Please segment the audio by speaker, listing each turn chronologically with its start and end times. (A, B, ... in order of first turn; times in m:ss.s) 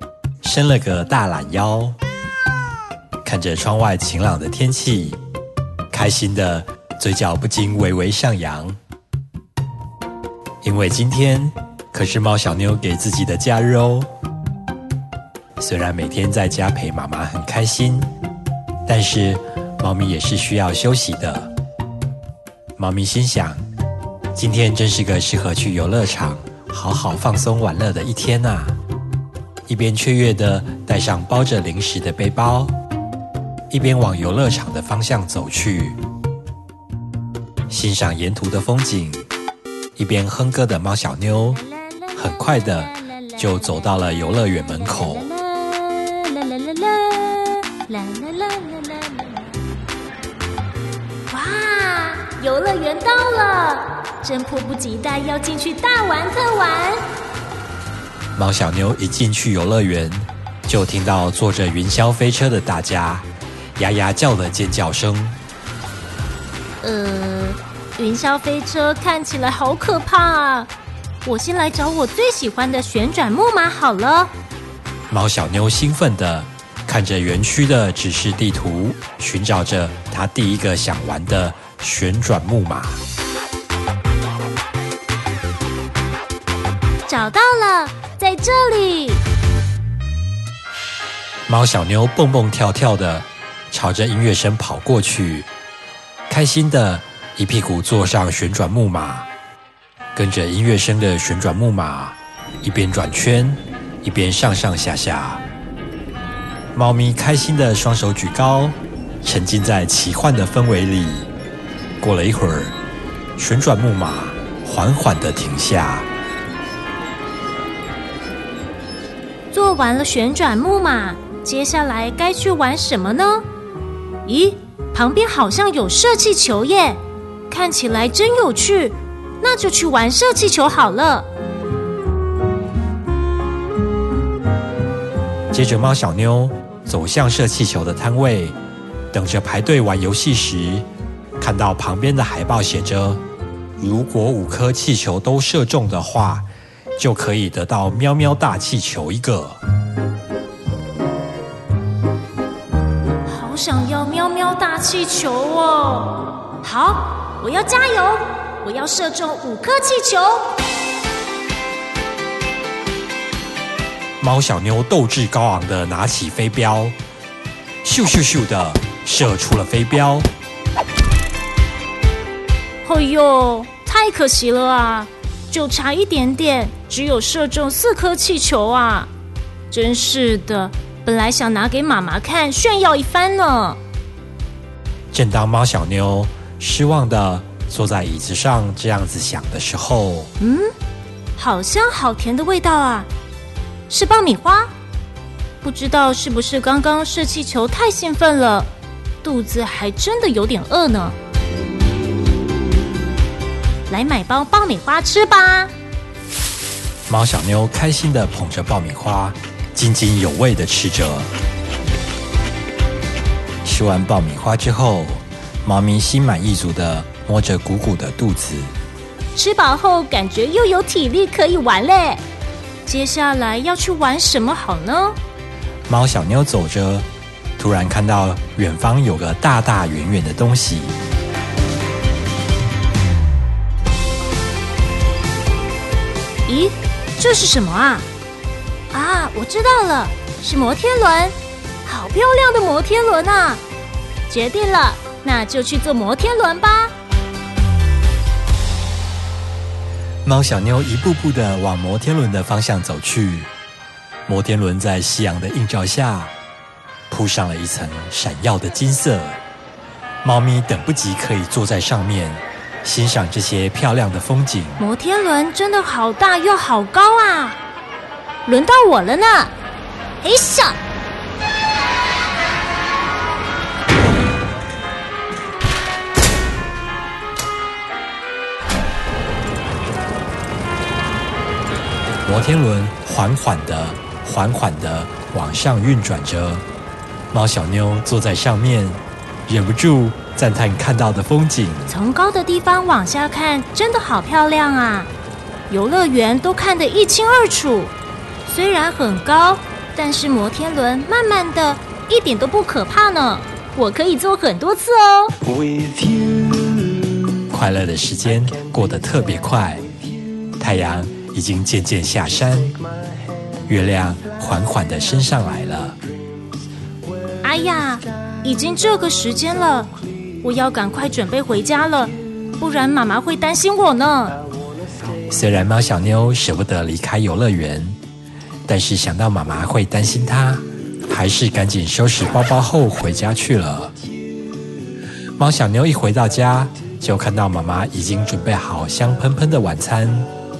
0:00.4-0:02.0 A
0:03.2-0:05.2 A
0:05.9-0:08.8 A
0:10.6-0:14.1 A
0:15.6-0:18.1 A
0:18.8-0:21.5 A
0:22.8-0:23.6 A
0:24.3-0:28.7 A
0:29.7-0:32.7 A
0:33.7-0:36.0 A
0:37.7-0:39.2 A
0:40.0-0:41.6 A
0:42.1-0:45.3 A
0:45.2-0:49.4 B
0:51.3-0:57.1 B
0:58.4-1:03.2 A
1:03.8-1:05.4 A
1:06.8-1:10.7 B
1:11.2-1:14.3 B
1:15.1-1:23.0 A
1:27.1-1:29.2 B
1:31.5-1:35.5 A
1:36.3-1:39.3 A
1:40.1-1:45.4 A
1:46.7-1:51.3 A
1:52.0-1:52.8 A
1:53.4-1:56.0 A
1:59.5-2:03.5 B
2:04.2-2:11.3 B
2:15.5-2:18.6 A
2:19.1-2:20.8 A
2:21.4-2:23.2 A
2:23.8-2:26.4 A
2:27.0-2:29.6 A
2:33.2-2:40.5 B
2:44.2-2:46.9 A
2:47.8-2:50.3 A
2:52.8-2:59.1 B
2:59.7-3:03.8 B
3:05.1-3:10.3 A
3:10.4-3:10.7 B
3:11.4-3:13.1 B
3:13.9-3:14.7 B
3:15.6-3:18.7 B
3:19.2-3:21.2 B
3:23.9-3:25.7 B
3:27.1-3:31.3 A
3:33.6-3:38.7 A
3:39.3-3:42.2 B
3:42.8-3:45.2 B
3:45.9-3:47.0 A
3:47.6-3:50.9 A
3:56.4-3:58.0 B
3:58.9-4:03.6 B
4:04.3-4:06.9 B
4:10.2-4:13.5 A
4:14.3-4:16.3 A
4:17.1-4:19.4 A
4:20.2-4:24.8 A
4:24.8-4:27.6 B
4:28.4-4:29.5 B
4:30.2-4:30.8 B
4:42.2-4:46.6 A
4:47.3-4:51.9 A
4:51.9-4:55.1 B
4:55.7-4:57.9 B
4:58.4-5:05.4 B
5:07.5-5:09.8 A
5:10.6-5:12.8 A
5:13.7-5:16.0 A
5:17.4-5:24.4 B
5:25.3-5:28.0 A
5:28.7-5:33.9 A
5:35.4-5:40.3 A